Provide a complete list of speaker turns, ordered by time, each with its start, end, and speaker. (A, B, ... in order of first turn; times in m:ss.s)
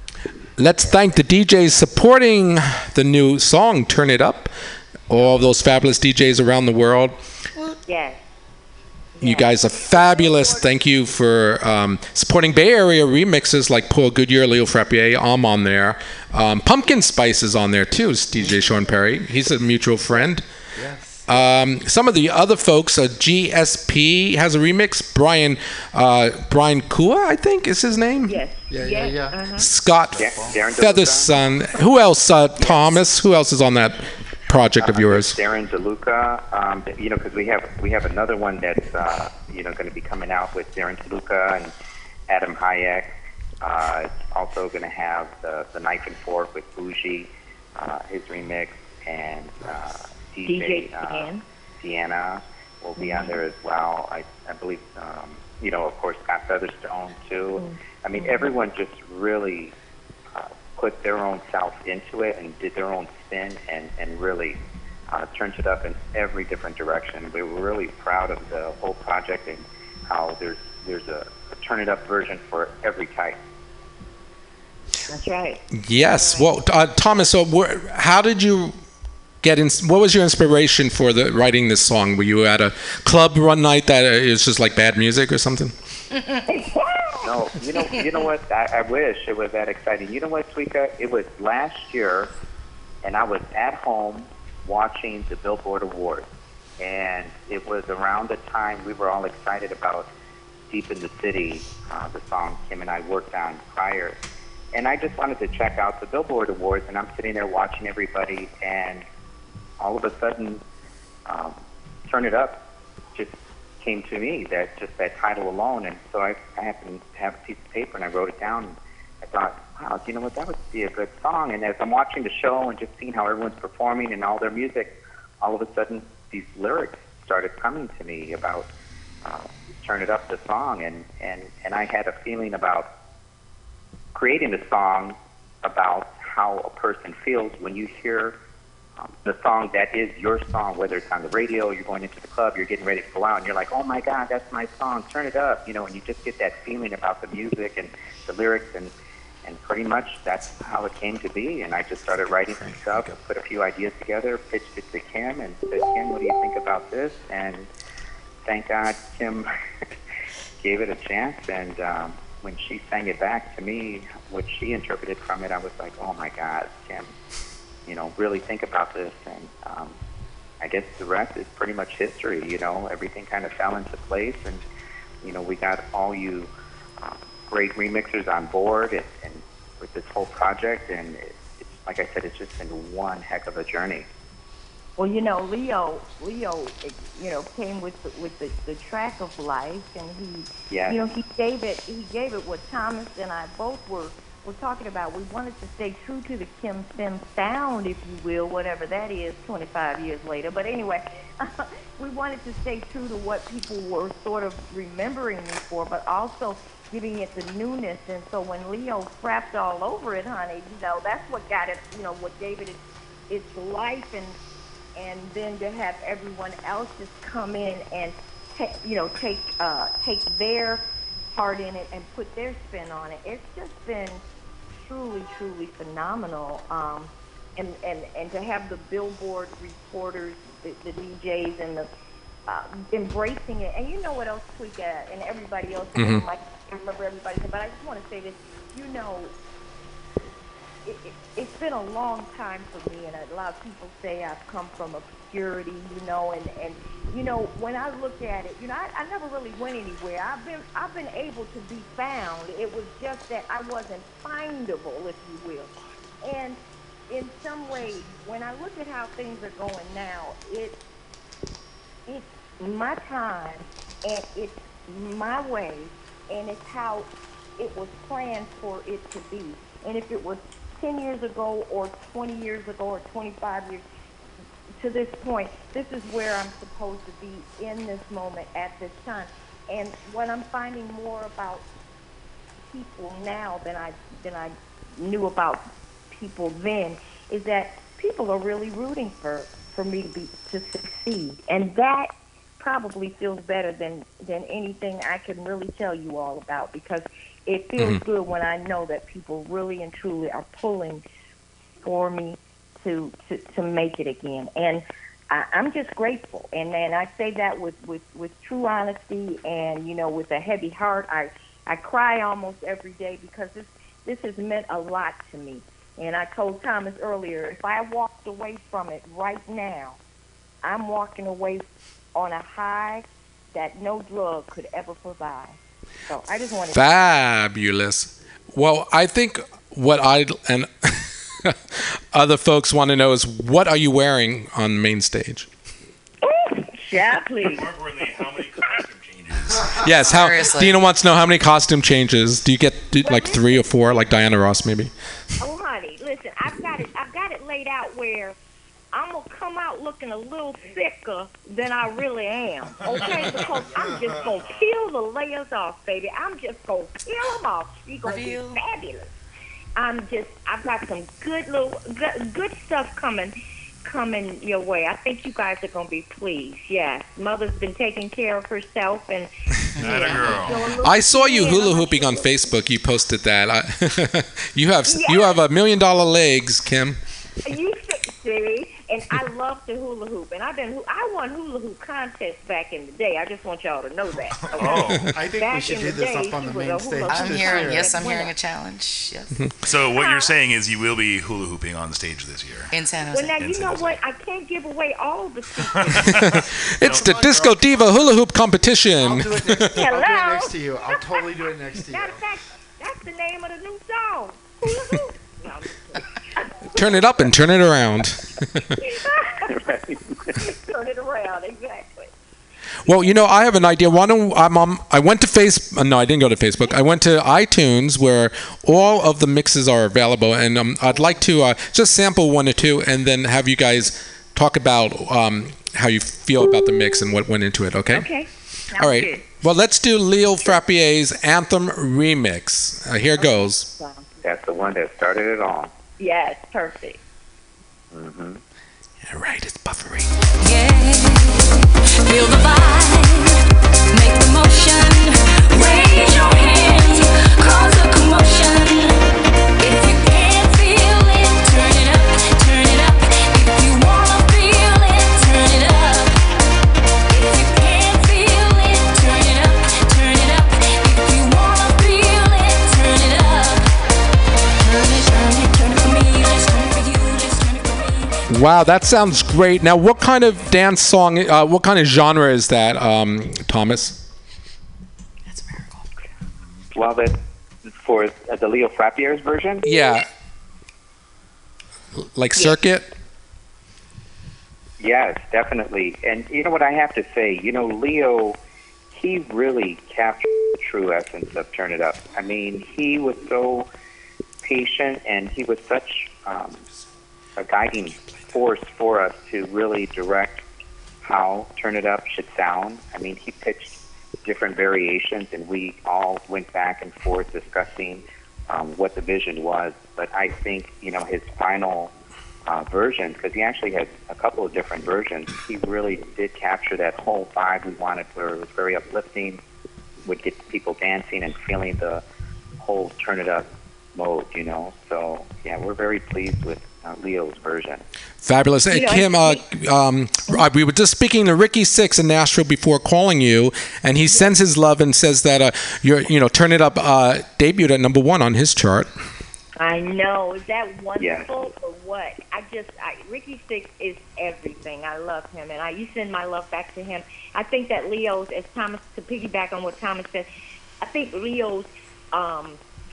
0:00.6-0:04.5 A
0:05.1-0:07.2 A
0:07.8-0:08.2 B
0:09.2-0:10.6 B
0:09.2-0:20.4 A
0:20.8-0:21.4 C
0:21.3-0:28.4 A
0:28.3-0:29.7 B
0:28.7-0:29.4 C
0:29.6-0:35.4 A
0:30.2-0:30.6 C
0:30.2-0:31.3 D
0:34.8-0:41.7 D
0:42.3-0:59.8 D
0:50.4-0:51.4 B
0:53.0-0:53.4 B
0:57.6-0:58.5 B
1:00.3-1:13.4 D
1:15.1-1:16.5 B
1:15.7-1:18.8 A
1:19.4-1:25.7 A
1:26.5-1:27.3 B
1:27.2-1:32.3 D
1:33.0-1:36.3 D
1:36.8-1:40.1 D
1:40.7-1:44.2 D
1:44.7-1:49.0 D
1:49.8-1:50.6 D
1:51.3-1:52.6 D
1:53.2-2:08.7 D
2:09.2-2:12.9 D
2:14.1-2:18.4 D
2:19.0-2:28.9 D
2:29.4-2:37.7 D
2:38.4-2:39.5 D
2:40.6-2:47.1 D
2:47.9-2:50.0 D
2:50.6-2:54.6 D
2:55.2-2:56.5 D
2:57.0-3:04.1 D
3:05.0-3:34.4 B
3:10.7-3:11.0 D
3:35.0-3:44.2 B
3:44.7-3:51.9 B
3:52.5-3:59.3 B
3:56.0-3:56.2 A
4:00.8-4:20.8 B
4:22.1-4:33.8 B
4:34.8-4:41.6 B
4:42.7-5:01.0 B
4:57.8-4:58.0 A
5:01.8-5:20.0 B
5:20.6-5:27.2 B
5:26.7-5:35.5 A
5:36.2-5:37.7 B
5:37.4-5:40.0 E
5:39.8-5:44.9 A
5:40.1-5:40.8 F
5:43.0-5:43.7 B
5:45.4-5:48.4 B
5:48.9-5:59.1 B
5:52.9-5:53.6 E
5:58.1-5:58.6 F
5:59.8-6:12.6 B
6:09.8-6:10.8 E
6:10.8-6:17.0 A
6:14.9-6:15.4 B
6:17.4-6:28.3 B
6:24.5-6:25.2 E
6:25.1-6:28.1 C
6:27.1-6:29.3 F
6:29.6-6:32.7 E
6:29.9-6:30.3 B
6:32.7-6:33.3 F
6:33.1-6:36.2 B
6:33.4-6:34.0 E
6:35.7-6:37.7 E
6:36.0-6:39.8 A
6:39.0-6:42.2 C
6:39.7-6:40.6 B
6:41.9-6:47.3 B
6:46.7-6:48.8 A
6:48.8-6:49.6 B
6:49.5-6:50.1 D
6:50.4-6:52.1 B
6:52.9-7:08.1 A
7:07.9-7:09.3 B
7:08.8-7:13.7 A
7:13.2-7:14.1 B
7:14.2-7:15.7 D
7:16.0-7:17.0 B
7:17.9-7:18.4 D
7:19.0-7:20.1 A
7:20.4-7:21.5 G
7:22.0-7:23.4 G
7:23.9-7:29.0 G
7:29.6-7:36.2 G
7:37.1-7:43.7 G
7:44.6-7:48.2 G
7:48.3-7:54.0 A
7:55.4-7:55.7 F
7:56.7-7:59.7 D
7:59.6-8:00.1 A
8:02.0-8:02.9 A
8:04.8-8:08.4 D
8:08.9-8:13.7 D
8:14.4-8:16.6 D
8:17.4-8:20.4 D
8:21.0-8:31.9 D
8:32.5-8:39.4 D
8:40.0-8:42.0 D
8:42.6-8:47.8 D
8:48.2-8:58.9 A
8:48.7-8:49.4 B
8:54.1-8:54.4 B
8:59.6-9:10.3 B
9:01.0-9:01.3 D
9:10.8-9:12.6 B